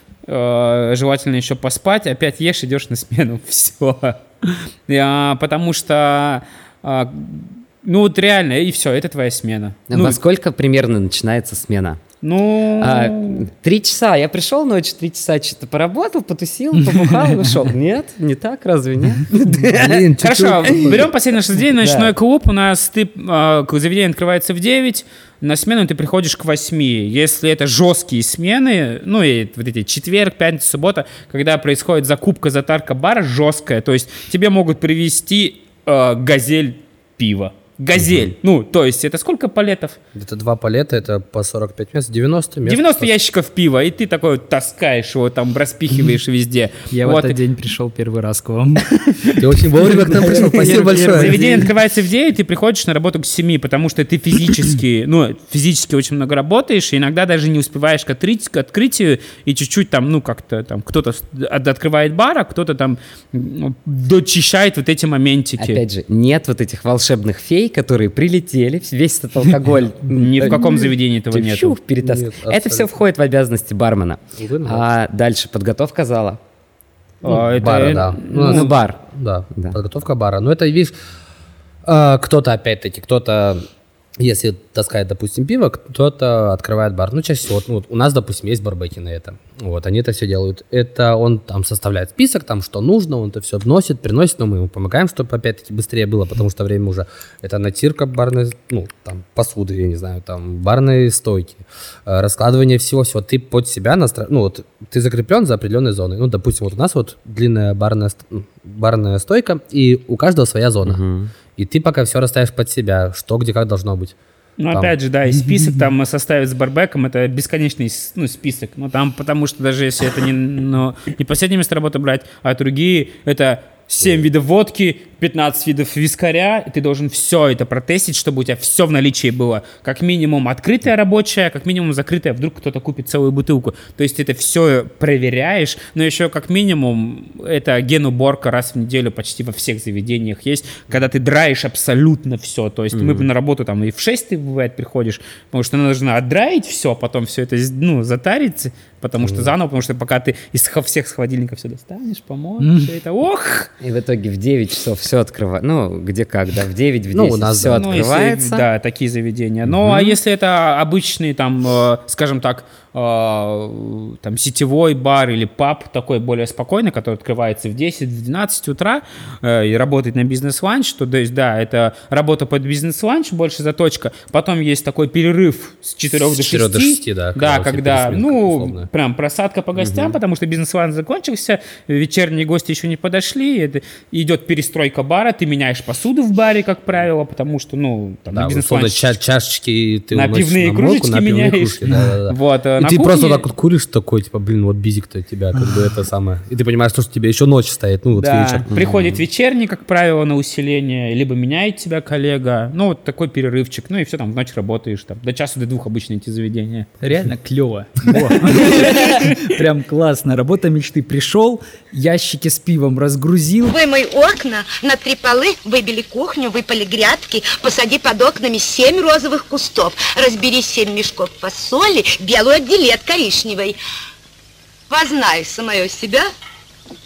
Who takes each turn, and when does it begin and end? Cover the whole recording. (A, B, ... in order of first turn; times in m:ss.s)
0:00.3-0:10.2 A
0:09.9-0:12.0 B
0:12.2-0:13.4 A
0:12.8-0:20.1 B
0:16.9-0:17.3 C
0:19.7-0:21.0 D
0:20.2-0:40.0 A
0:20.7-0:21.0 B
0:21.8-0:22.1 B
0:40.1-0:43.1 D
0:42.6-0:47.4 A
0:46.9-0:48.9 C
0:49.4-0:51.4 D
0:49.8-0:51.7 C
0:51.1-1:05.8 A
1:05.6-1:16.4 B
1:10.1-1:11.8 A
1:12.0-1:12.9 D
1:14.4-1:14.9 D
1:17.2-1:18.7 A
1:17.2-1:20.9 D
1:18.3-1:19.0 B
1:21.8-1:23.6 D
1:24.2-1:51.0 D
1:50.8-1:51.3 B
1:51.6-1:54.1 D
1:54.6-2:33.7 A
2:22.9-2:23.3 B
2:29.2-2:29.5 D
2:32.6-2:32.9 C
2:33.8-2:38.7 B
2:37.1-2:38.0 D
2:37.7-3:09.2 A
2:56.1-2:58.9 D
2:59.8-3:00.2 B
3:08.3-3:18.7 D
3:10.1-3:13.5 A
3:18.1-3:26.9 A
3:18.7-3:19.2 B
3:27.0-3:33.7 C
3:33.7-3:43.8 E
3:44.9-3:46.3 E